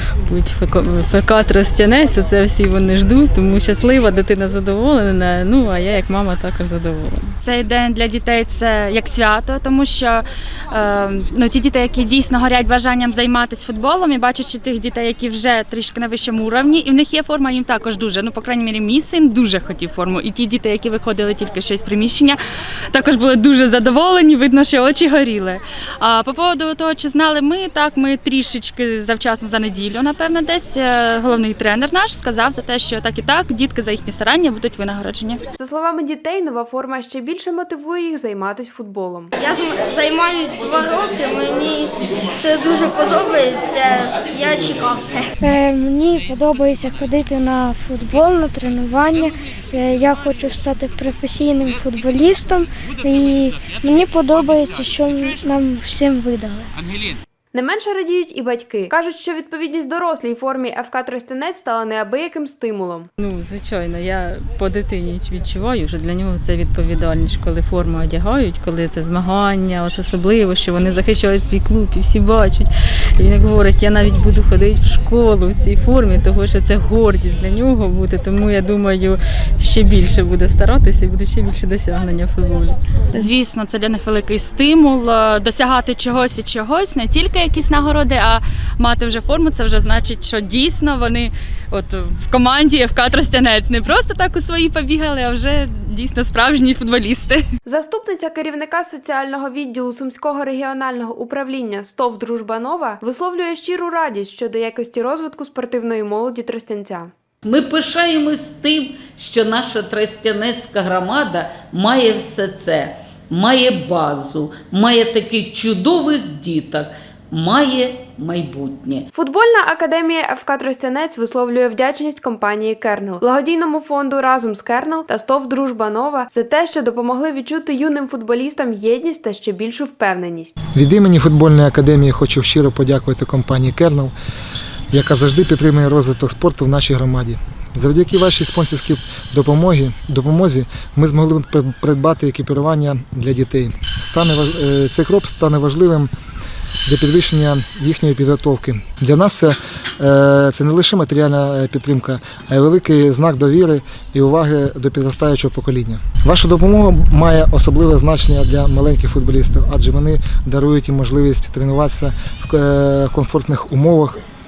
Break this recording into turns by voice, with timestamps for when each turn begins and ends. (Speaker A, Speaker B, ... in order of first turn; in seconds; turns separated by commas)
Speaker A: 0.3-7.3, Speaker B: 7.4-22.4, Speaker B: 22.9-35.4, Speaker C: 35.6-39.3, Speaker D: 39.4-45.4, Speaker E: 45.4-56.7, Speaker C: 57.5-63.1, Speaker A: 63.2-82.8, Speaker B: 83.1-97.4, Speaker C: 97.7-107.1, Speaker F: 107.4-119.1, Speaker C: 119.1-130.5, Speaker G: 130.7-134.1, Speaker G: 134.9-146.1, Speaker G: 146.9-164.2